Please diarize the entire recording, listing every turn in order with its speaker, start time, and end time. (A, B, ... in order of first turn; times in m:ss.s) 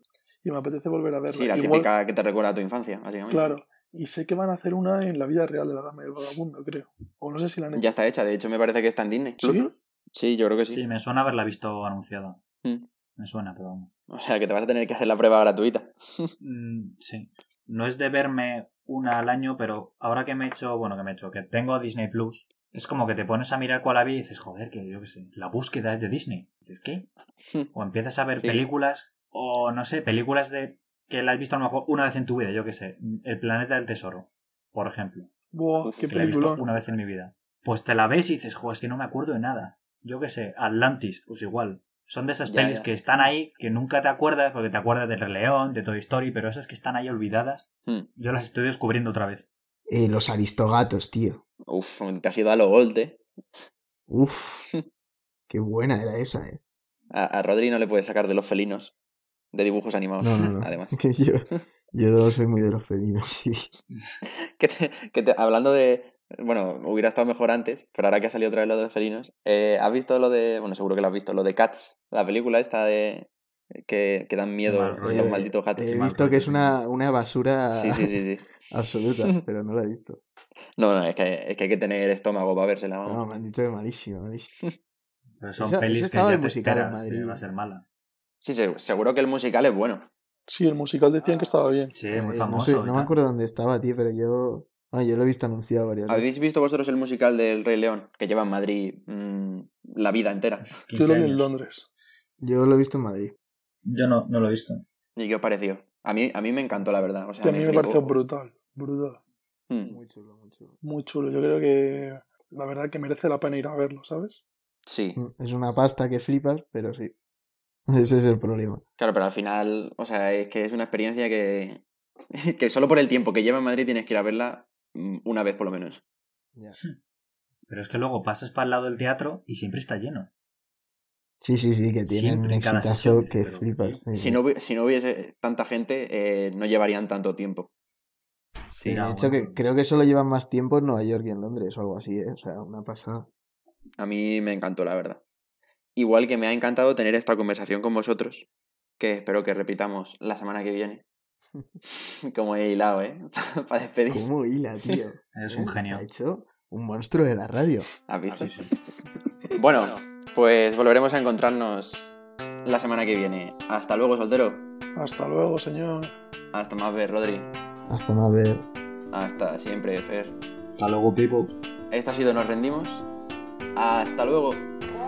0:00.4-0:01.9 A
0:01.3-0:03.6 B
0:03.3-0:07.9 A
0:07.7-0:10.8 B
0:09.4-0:09.7 A
0:10.7-0:12.4 C
0:13.2-0:13.9 C
0:14.1-0:16.3 B
0:16.4-0:27.1 C
0:27.7-0:35.3 C
0:28.3-0:28.6 B
0:35.5-0:36.6 A
0:35.8-0:36.8 B
0:36.0-0:49.5 C
0:42.5-0:42.9 B
0:49.9-0:51.4 D
0:51.7-0:53.2 B
0:54.1-0:54.6 D
0:55.5-0:56.6 D
0:57.1-0:58.9 B
0:59.5-1:01.0 B
1:00.2-1:03.7 D
1:03.9-1:04.2 C
1:04.6-1:16.0 B
1:14.6-1:16.8 C
1:15.0-1:18.1 D
1:17.7-1:18.5 B
1:18.7-1:20.2 D
1:20.8-1:23.2 B
1:23.0-1:24.5 D
1:25.4-1:27.8 C
1:25.6-1:27.4 D
1:28.4-1:30.0 B
1:30.5-1:31.9 A
1:31.2-1:36.3 D
1:31.9-1:33.1 C
1:36.1-1:40.7 B
1:40.8-1:41.5 C
1:40.9-1:41.9 A
1:42.4-1:43.3 D
1:43.8-1:44.8 C
1:45.2-1:48.2 B
1:46.8-1:47.1 D
1:47.4-1:49.2 A
1:49.7-1:50.0 B
1:49.8-1:50.8 D
1:50.8-1:54.4 A
1:54.8-1:55.2 B
1:55.2-1:57.1 D
1:57.9-1:58.8 D
1:59.0-2:01.8 B
2:02.3-2:06.0 B
2:07.7-2:10.3 C
2:11.4-2:14.4 D
2:12.0-2:14.0 C
2:14.1-2:17.7 B
2:18.7-2:19.0 B
2:18.8-2:19.6 C
2:18.8-2:23.3 D
2:24.0-2:25.2 B
2:26.0-2:28.5 B
2:29.0-2:31.0 B
2:31.9-2:35.0 B
2:34.1-2:37.9 D
2:35.4-2:36.1 C
2:38.1-2:38.5 B
2:38.3-2:38.7 C
2:39.6-2:44.6 B
2:45.0-2:46.1 A
2:46.5-2:47.5 B
2:47.9-2:48.6 D
2:49.1-2:50.4 B
2:50.8-2:51.5 C
2:51.9-2:53.0 B
2:53.7-2:54.7 B